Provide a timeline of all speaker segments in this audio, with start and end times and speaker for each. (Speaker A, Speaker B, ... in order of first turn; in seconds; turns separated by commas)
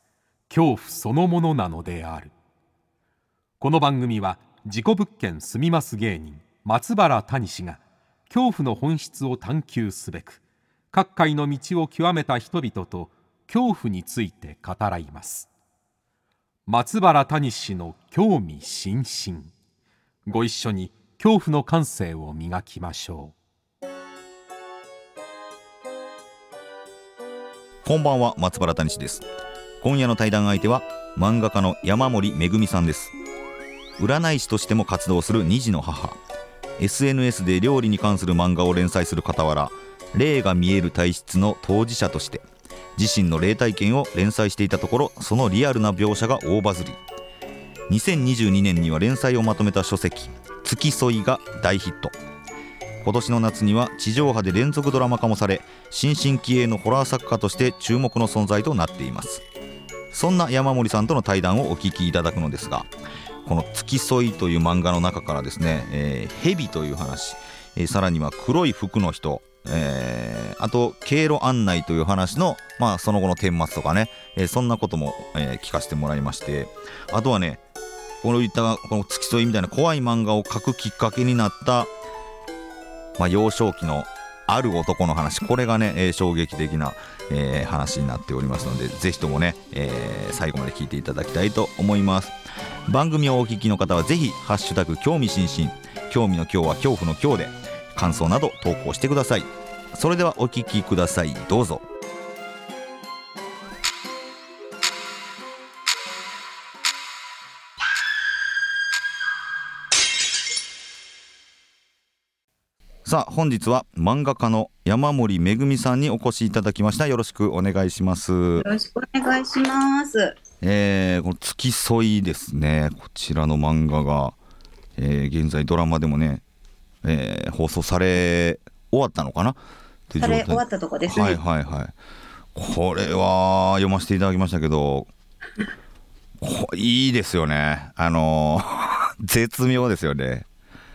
Speaker A: 0.5-2.3, Speaker A: 3.6-10.4, Speaker A: 10.9-15.5, Speaker A: 16.7-19.5, Speaker A: 20.2-23.3, Speaker B: 27.8-29.2, Speaker B: 29.8-33.1, Speaker B: 34.0-36.2, Speaker B: 36.8-42.4, Speaker B: 43.0-47.0, Speaker B: 47.9-52.1, Speaker B: 53.0-59.4, Speaker B: 60.1-62.9, Speaker B: 63.4-77.6, Speaker B: 78.2-81.9, Speaker B: 83.2-92.3, Speaker B: 92.9-101.8, Speaker B: 113.0-118.7, Speaker C: 118.6-120.4, Speaker B: 120.6-124.3, Speaker B: 125.0-126.4, Speaker B: 127.0-131.9, Speaker C: 130.2-131.4, Speaker B: 132.5-135.1, Speaker B: 136.4-140.4